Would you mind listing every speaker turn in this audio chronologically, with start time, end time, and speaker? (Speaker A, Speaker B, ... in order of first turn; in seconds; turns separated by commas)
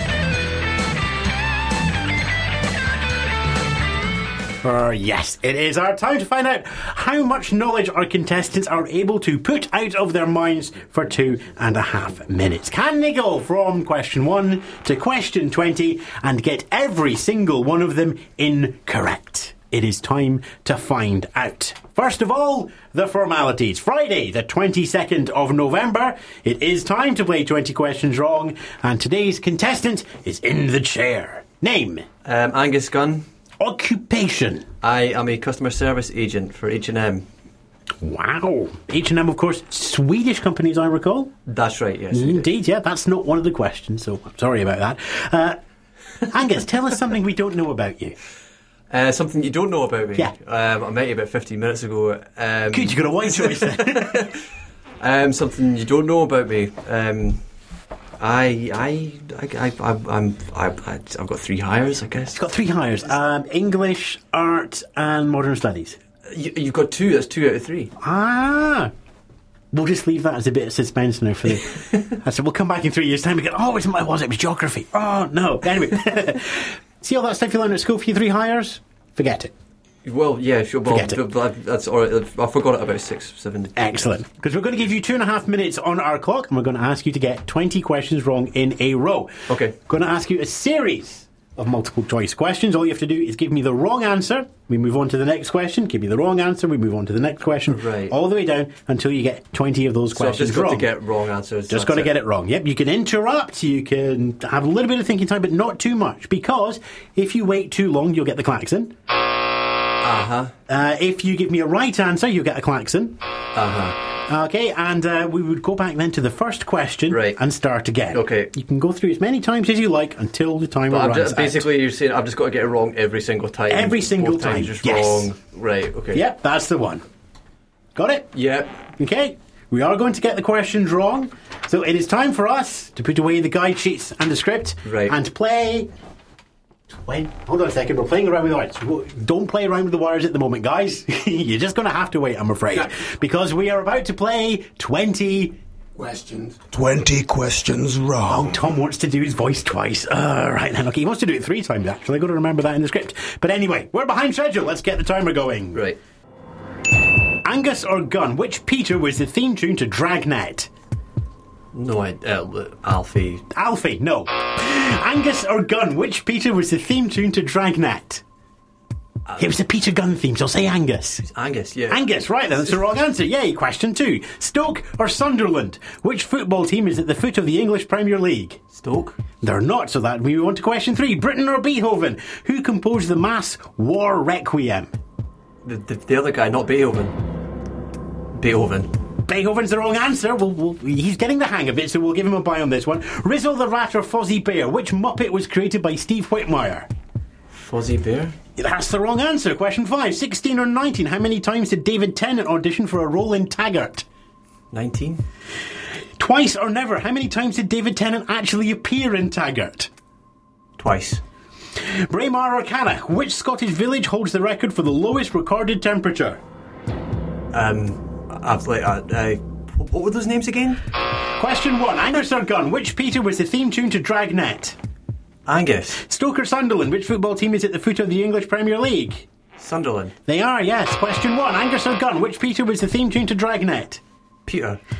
Speaker A: 4.6-32.1, Speaker B: 32.2-33.2, Speaker A: 33.6-34.7, Speaker B: 34.8-37.2, Speaker A: 38.0-41.3, Speaker B: 41.5-42.5, Speaker A: 42.1-45.6, Speaker A: 46.3-48.2, Speaker B: 48.9-54.3, Speaker A: 52.7-54.3, Speaker B: 55.0-57.4, Speaker B: 58.2-62.4, Speaker A: 62.4-66.0, Speaker B: 66.3-67.9, Speaker A: 68.0-68.9, Speaker A: 69.7-79.5, Speaker B: 80.0-84.0, Speaker A: 80.9-81.2, Speaker A: 83.8-100.9, Speaker B: 89.5-89.8, Speaker B: 97.6-98.1, Speaker B: 100.1-102.1, Speaker A: 101.7-108.9, Speaker B: 110.0-110.5, Speaker A: 110.7-113.2, Speaker B: 113.5-114.0, Speaker A: 114.3-121.7, Speaker B: 117.1-117.4, Speaker B: 118.1-118.5, Speaker B: 120.9-126.2, Speaker A: 123.7-125.3, Speaker A: 126.1-127.0, Speaker A: 128.0-128.3, Speaker B: 128.3-128.7, Speaker A: 129.0-135.9, Speaker B: 134.8-135.2, Speaker A: 136.9-145.6, Speaker C: 146.0-148.5, Speaker A: 148.3-155.8, Speaker A: 157.4-160.7, Speaker B: 161.7-163.4, Speaker A: 163.5-168.2, Speaker A: 169.4-171.2, Speaker B: 171.2-172.1, Speaker A: 171.9-178.6, Speaker B: 178.7-179.2, Speaker A: 179.4-184.9, Speaker B: 185.7-187.2, Speaker B: 188.3-188.9, Speaker A: 189.3-196.9, Speaker B: 197.5-198.3, Speaker A: 198.6-204.1, Speaker B: 204.7-205.2, Speaker A: 206.2-209.9, Speaker B: 210.8-211.2, Speaker A: 212.0-216.4, Speaker B: 217.5-220.8, Speaker A: 221.4-224.8, Speaker B: 225.5-226.0, Speaker A: 226.0-229.3, Speaker B: 229.6-230.1, Speaker A: 230.3-234.0, Speaker B: 234.5-234.8